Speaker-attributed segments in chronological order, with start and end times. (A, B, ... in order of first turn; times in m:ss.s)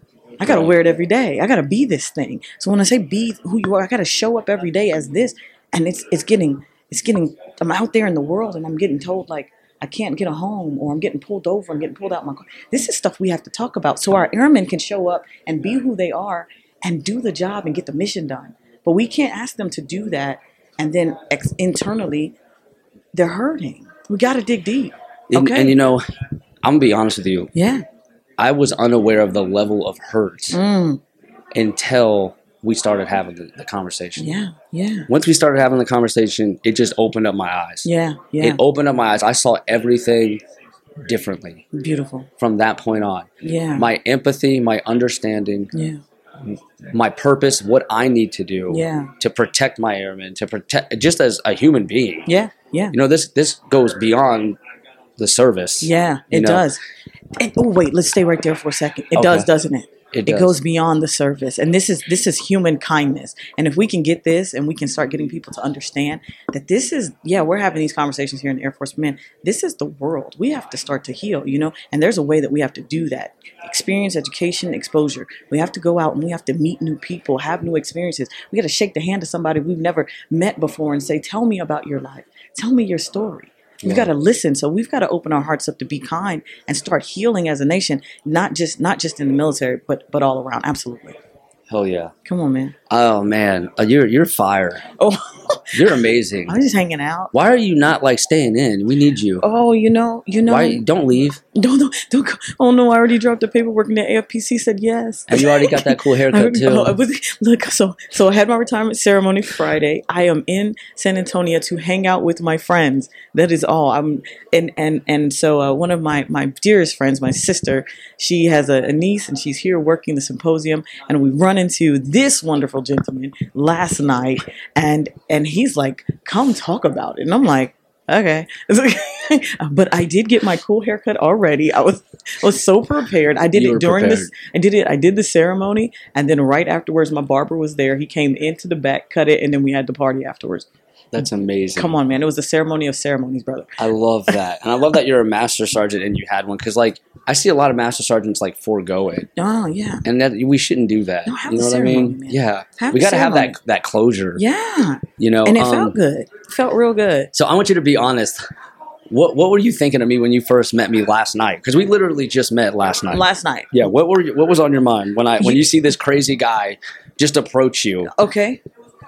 0:00.4-0:22.4 A
0:00.4-0:00.7 B
0:23.1-0:25.8 A
0:25.3-0:26.0 B
0:26.6-0:27.5 B
0:27.5-0:27.8 A
0:28.4-0:30.6 B
0:30.5-0:31.0 A
0:31.5-0:34.3 B
0:34.2-0:35.1 A
0:35.1-0:37.9 B
0:37.8-0:38.6 A
0:38.4-0:40.4 B
0:41.0-0:41.6 B
0:41.7-0:42.3 A
0:42.4-0:45.7 B
0:43.4-0:43.8 A
0:45.7-0:46.0 A
0:46.4-0:52.3 B
0:48.7-0:49.1 A
0:52.3-0:52.9 A
0:52.9-0:54.6 B
0:55.2-0:56.6 B
0:55.8-0:56.8 A
0:57.4-1:31.2 A
0:59.1-0:59.5 B
1:00.1-1:00.6 B
1:23.8-1:24.1 B
1:31.7-1:32.1 B
1:32.2-1:32.7 A
1:32.9-1:34.8 B
1:35.0-1:37.3 A
1:35.7-1:36.6 B
1:37.3-1:39.4 B
1:39.4-1:40.8 A
1:40.5-1:41.4 B
1:41.5-2:20.7 A
1:45.3-1:47.0 B
2:13.5-2:14.3 B
2:21.1-2:21.9 B
2:21.7-2:23.8 A
2:23.8-2:29.3 B
2:29.4-2:30.0 A
2:30.0-2:34.4 B
2:31.2-2:33.6 A
2:34.4-2:37.3 A
2:35.2-2:36.0 B
2:37.3-2:38.4 B
2:39.1-2:48.1 B
2:43.1-2:43.9 A
2:45.4-2:45.7 A
2:48.1-2:48.6 A